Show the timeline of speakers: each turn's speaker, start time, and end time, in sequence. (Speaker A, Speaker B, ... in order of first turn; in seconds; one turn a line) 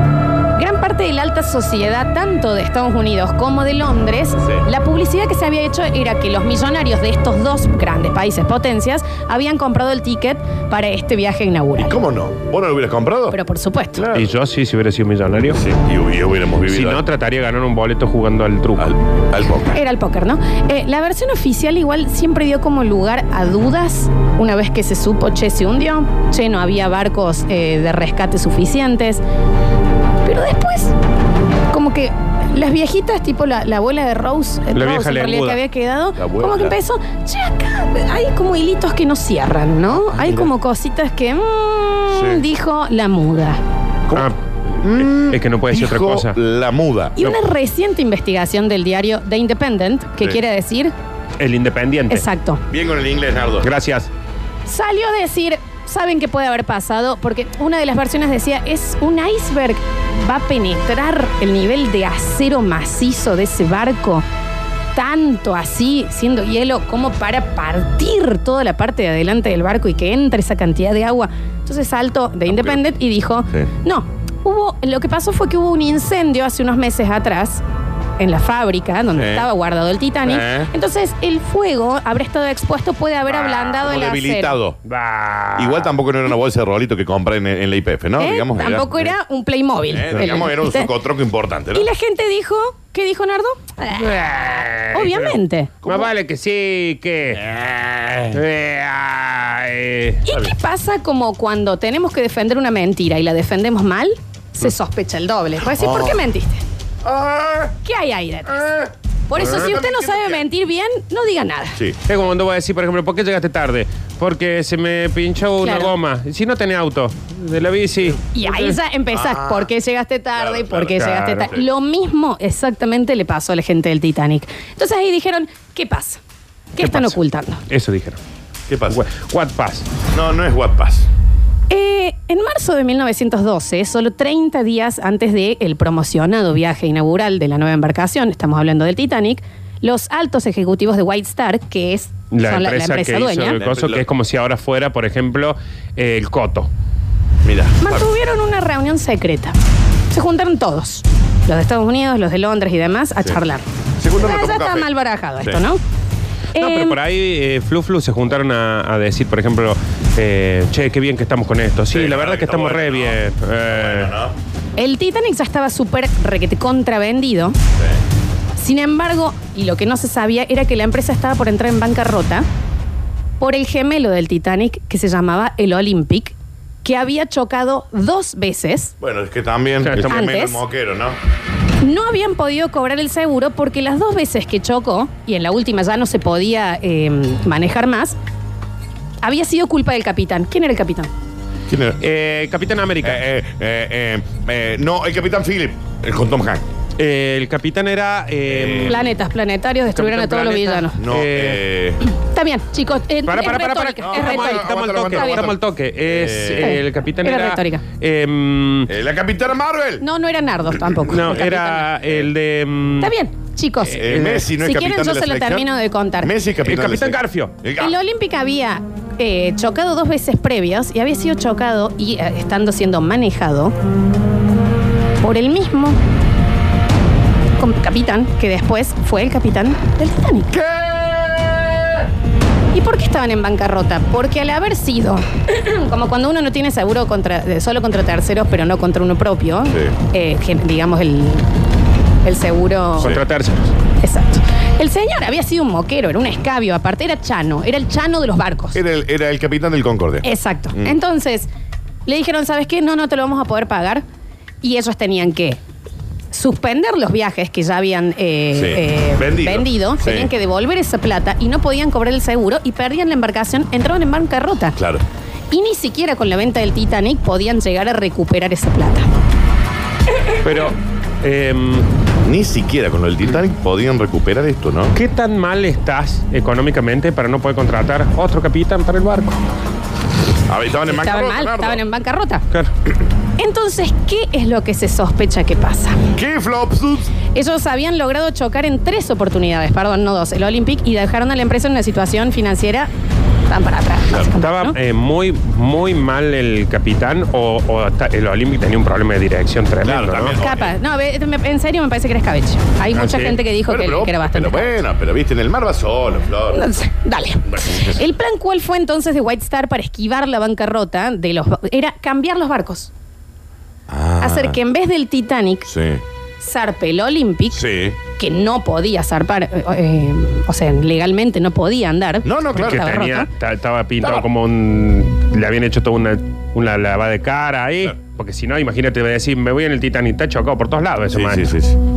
Speaker A: 0.6-11.9
Speaker B: 11.8-13.4
Speaker A: 13.3-14.1
Speaker B: 13.9-14.3
Speaker C: 14.1-15.6
Speaker B: 15.5-17.0
Speaker C: 16.6-18.9
Speaker B: 18.8-19.8
Speaker A: 19.7-29.2
Speaker A: 30.2-30.9
Speaker A: 31.7-43.6
Speaker C: 34.7-35.6
Speaker B: 36.2-36.8
Speaker B: 39.9-40.5
Speaker B: 42.1-42.5
Speaker B: 44.1-47.2
Speaker C: 45.1-46.4
Speaker A: 47.1-50.9
Speaker C: 51.4-52.2
Speaker A: 52.1-52.6
Speaker B: 52.7-53.7
Speaker C: 53.6-54.1
Speaker A: 54.6-64.2
Speaker A: 64.9-77.6
Speaker B: 72.5-72.8
Speaker A: 78.2-84.6
Speaker B: 79.1-79.5
Speaker B: 80.2-80.7
Speaker C: 83.3-83.8
Speaker B: 83.5-84.8
Speaker C: 84.8-86.0
Speaker B: 85.5-89.1
Speaker A: 88.2-90.9
Speaker B: 89.9-91.9
Speaker A: 91.7-95.8
Speaker C: 93.9-97.5
Speaker B: 95.8-96.1
Speaker B: 97.4-98.4
Speaker C: 98.3-100.2
Speaker A: 100.2-106.6
Speaker B: 105.7-106.2
Speaker B: 107.0-107.7
Speaker A: 107.8-111.8
Speaker B: 108.5-110.4
Speaker C: 112.1-118.8
Speaker A: 115.6-115.9
Speaker A: 118.3-126.2
Speaker B: 119.1-119.7
Speaker B: 120.3-121.7
Speaker C: 120.9-121.5
Speaker A: 126.8-127.6
Speaker C: 126.8-128.2
Speaker B: 128.7-129.0
Speaker C: 128.9-129.9
Speaker B: 130.1-131.1
Speaker A: 131.7-143.6
Speaker C: 142.3-146.7
Speaker B: 143.5-144.1
Speaker B: 147.4-148.1
Speaker A: 147.8-149.5
Speaker A: 150.1-155.8
Speaker B: 154.0-155.6
Speaker C: 156.5-164.1
Speaker A: 156.5-157.0
Speaker B: 161.9-164.3
Speaker A: 164.8-167.6
Speaker A: 168.6-172.4
Speaker A: 173.4-178.9
Speaker B: 179.0-181.2
Speaker C: 179.8-180.3
Speaker A: 180.1-180.6
Speaker A: 181.8-188.2
Speaker A: 189.2-191.1
Speaker B: 191.7-192.0
Speaker C: 192.0-193.2
Speaker B: 193.0-196.6
Speaker C: 197.0-199.1
Speaker B: 198.4-199.1
Speaker A: 198.8-201.0
Speaker C: 199.9-201.7
Speaker B: 201.0-202.0
Speaker A: 202.0-205.5
Speaker C: 203.2-208.9
Speaker B: 204.0-206.8
Speaker A: 206.6-207.8
Speaker B: 208.9-210.0
Speaker A: 210.0-211.9
Speaker C: 211.1-213.1
Speaker A: 213.0-216.3
Speaker C: 213.8-214.5
Speaker B: 213.9-215.7
Speaker B: 216.2-217.9
Speaker C: 216.6-217.5
Speaker A: 217.8-223.7
Speaker A: 225.2-226.0
Speaker A: 227.6-230.5
Speaker B: 230.5-231.8
Speaker A: 232.7-241.4
Speaker B: 239.7-239.9
Speaker A: 242.2-243.1
Speaker B: 243.0-243.2
Speaker C: 243.0-243.7
Speaker A: 244.0-248.8
Speaker B: 248.7-251.0
Speaker A: 250.2-251.5
Speaker A: 252.1-254.0
Speaker A: 254.6-255.6
Speaker A: 256.3-264.8
Speaker B: 258.5-260.3
Speaker B: 264.8-265.0
Speaker A: 265.5-269.1
Speaker B: 270.4-270.8
Speaker C: 271.2-271.9
Speaker B: 272.2-274.9
Speaker C: 274.9-279.4
Speaker B: 280.5-281.8
Speaker A: 280.8-282.4
Speaker A: 283.4-286.1
Speaker B: 286.1-287.1
Speaker A: 287.3-292.9
Speaker A: 293.5-294.8
Speaker C: 294.4-300.4
Speaker B: 299.8-300.8
Speaker A: 300.4-304.7
Speaker C: 302.9-303.4
Speaker B: 303.6-306.6
Speaker A: 306.5-312.9
Speaker B: 307.5-308.0
Speaker B: 313.9-314.6
Speaker A: 314.2-315.7
Speaker B: 315.7-316.0
Speaker A: 316.4-323.3
Speaker B: 317.5-318.0
Speaker B: 322.2-322.9
Speaker C: 322.6-331.5
Speaker B: 324.0-324.2
Speaker B: 331.1-331.8